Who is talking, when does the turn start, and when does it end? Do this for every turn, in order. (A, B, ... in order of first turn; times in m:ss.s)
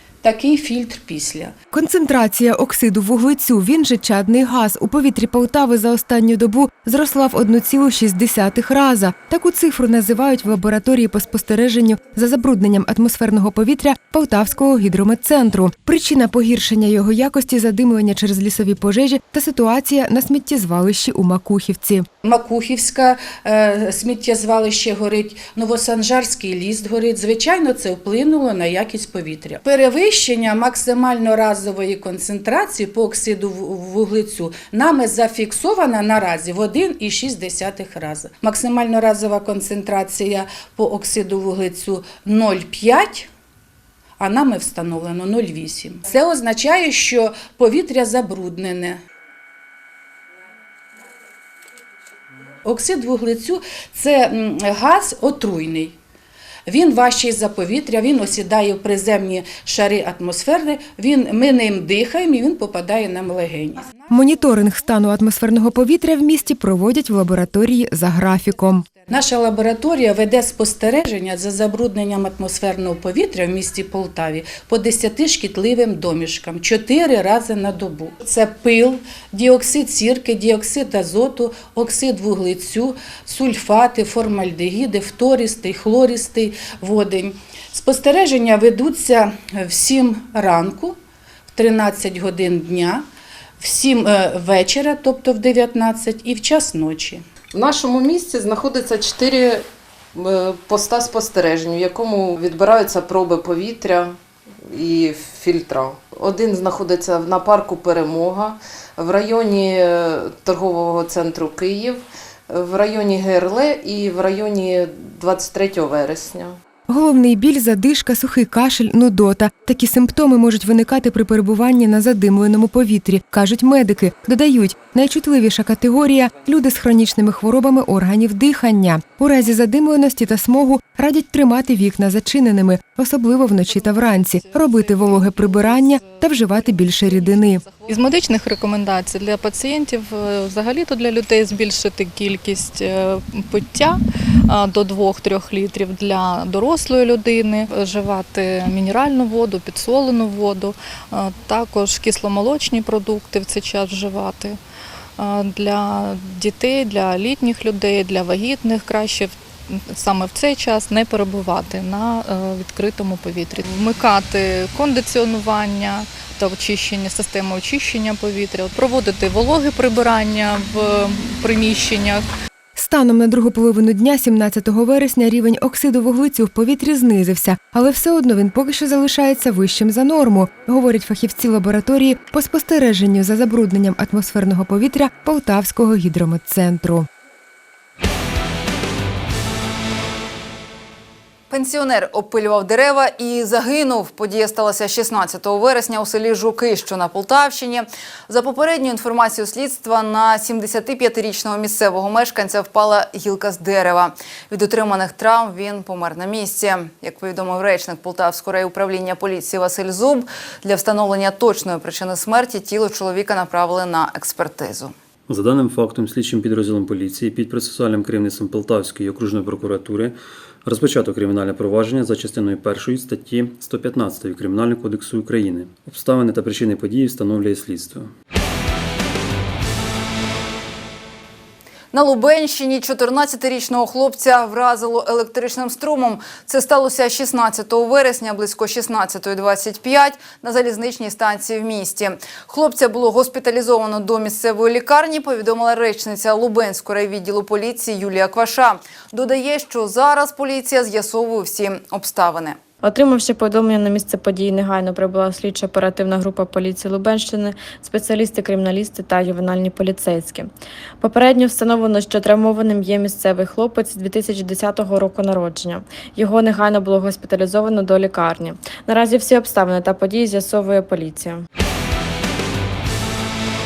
0:00.2-0:01.5 A
0:01.7-0:22.1 B
0:22.2-0:43.3 A
0:44.2-0:49.0 A
0:52.6-0:55.9 A
0:56.7-1:03.8 A
1:04.1-1:08.8 B
1:09.1-1:30.9 A
1:31.5-1:33.0 A
1:33.6-1:37.2 A
1:37.5-1:39.6 C
1:40.2-1:56.6 C
1:56.9-2:17.6 B
2:14.0-2:16.2 D
2:17.0-2:34.6 D
2:35.2-2:52.3 D
2:52.8-3:07.1 B
3:11.5-3:34.9 E
3:35.3-3:40.1 F
3:40.7-3:48.0 F
3:51.9-4:12.6 E
4:12.8-4:31.4 G